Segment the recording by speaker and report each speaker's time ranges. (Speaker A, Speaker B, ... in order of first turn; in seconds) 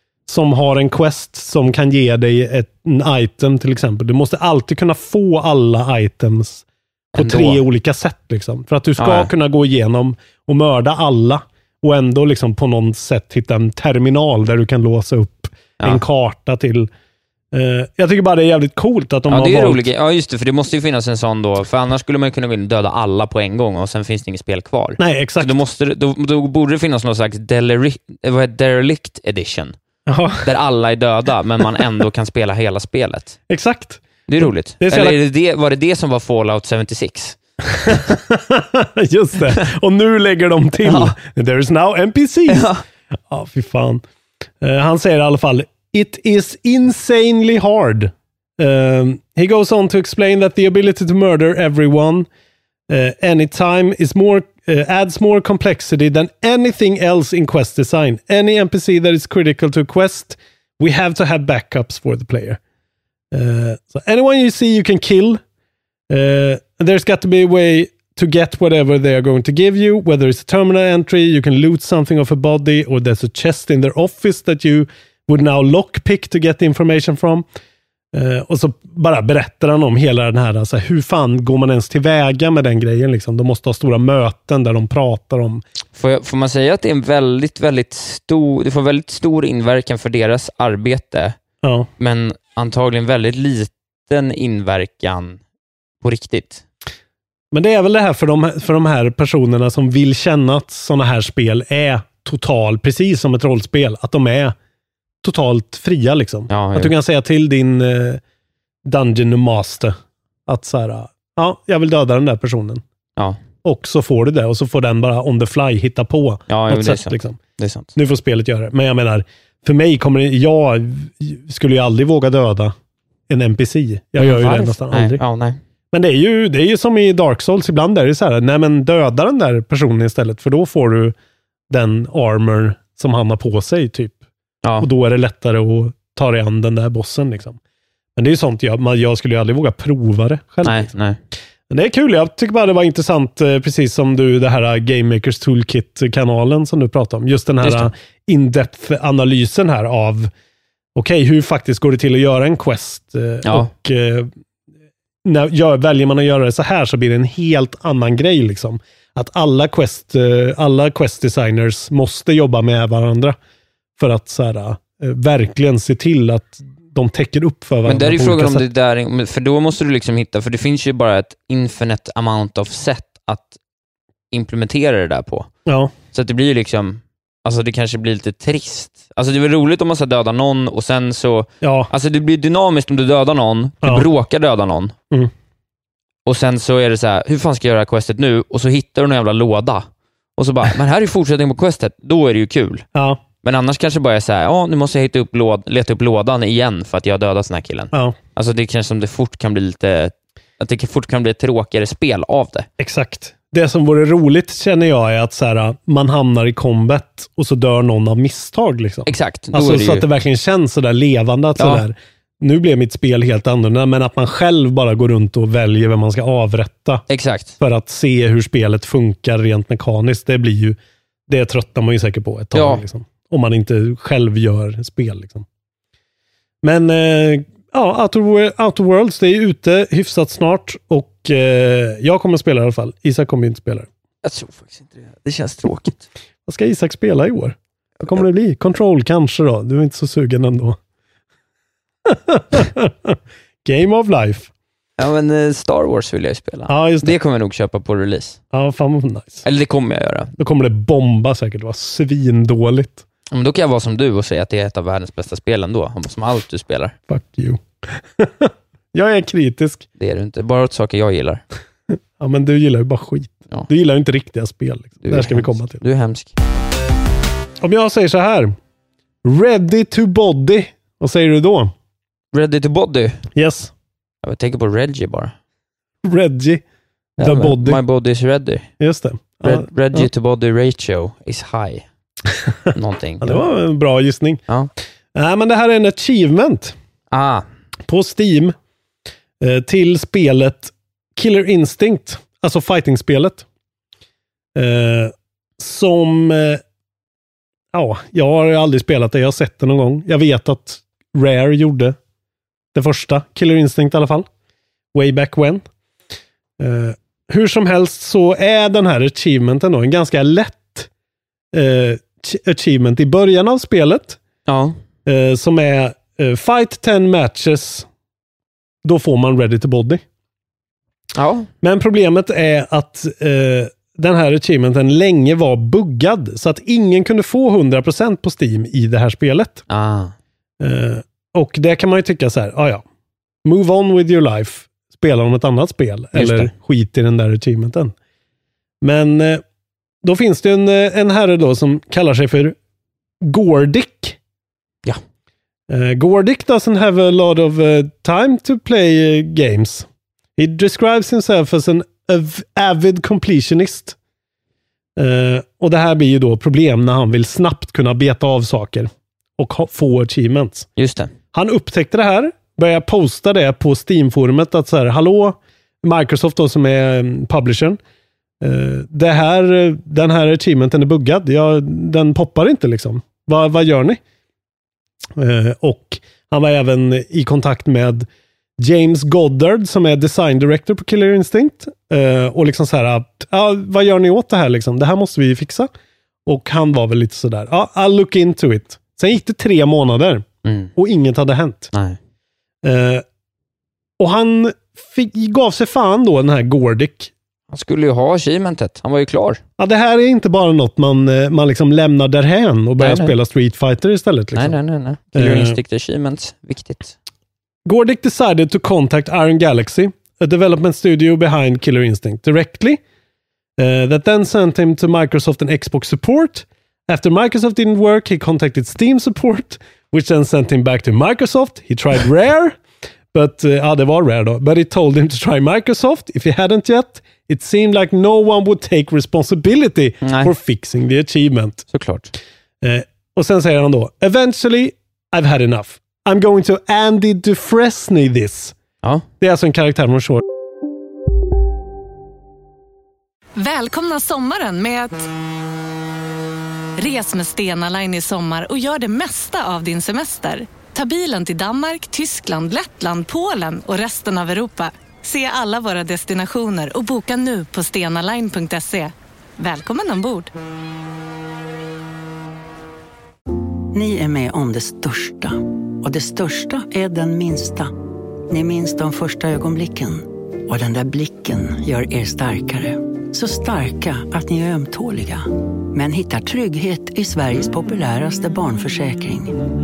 Speaker A: 0.3-6.6, 7.1-16.9, 17.5-19.9, 25.0-25.6, 30.1-30.5, 33.5-35.2, 37.8-42.7, 43.3-44.0, 44.6-52.3, 52.9-62.6, 63.3-65.4, 66.1-77.4, 78.1-85.6, 91.6-91.9, 97.5-104.5, 105.2-108.2, 108.8-110.0, 110.5-112.8, 113.6-117.4, 118.0-122.7, 123.3-125.2, 125.9-131.2, 131.7-134.2, 134.8-137.6, 138.2-140.9, 141.7-150.3, 150.9-154.3, 155.2-163.3, 164.0-168.7, 175.7-175.9, 181.6-181.9, 192.9-193.2, 202.8-217.0, 217.6-225.4, 226.6-233.9, 236.4-240.8, 242.1-244.5, 246.7-247.2, 248.5-249.4, 250.4-253.0, 257.1-259.9, 262.2-265.8, 267.6-268.5, 269.2-271.7, 273.3-273.7, 276.0-276.6, 277.2-277.8, 278.8-280.1, 283.2-284.4, 285.1-286.7, 287.9-288.5, 289.4-293.4, 294.5-296.6, 297.7-302.0, 302.7-304.3, 304.9-305.6, 306.6-310.9, 311.5-314.2, 315.1-317.9, 318.8-320.0, 321.6-329.6, 330.6-332.8, 333.4-337.9, 338.8-339.4, 340.0-342.6, 343.2-344.2, 345.7-353.9, 355.0-360.7, 361.3-367.8, 368.4-374.0, 375.1-385.7, 386.2-391.7, 392.6-393.0, 394.0-397.1, 399.6-404.6, 405.1-405.6, 407.6-412.8, 413.6-422.6, 423.1-431.6, 432.6-438.6, 439.2-440.2
Speaker B: 7.1-7.6, 9.0-9.3, 19.3-29.7, 30.4-33.4, 34.3-37.4, 40.8-41.1, 42.5-42.8, 85.9-91.3, 92.0-95.4, 96.0-96.6, 106.5-106.9, 116.5-117.9, 124.2-125.6, 140.6-141.2, 147.6-147.9, 153.4-153.7, 167.8-173.6, 174.3-175.5, 176.1-184.9, 186.2-189.8, 190.4-192.8, 193.4-202.7, 209.1-210.1, 211.6-211.8, 217.1-217.6, 222.5-222.8, 234.2-236.1, 245.0-248.4, 249.4-250.3, 253.3-256.9, 260.0-261.4, 265.0-266.3, 272.3-273.2, 274.2-275.3, 277.2-278.7, 279.4-281.9, 282.7-283.4, 287.1-287.4, 314.5-314.8, 321.1-321.5, 329.7-330.1, 336.1-336.5, 360.8-361.1, 390.4-390.7, 391.7-392.0, 397.5-399.4, 402.8-403.1, 404.3-406.9, 430.0-430.3, 431.7-432.1
Speaker C: 443.4-445.1, 446.8-460.3
Speaker D: 463.7-467.7, 468.3-479.3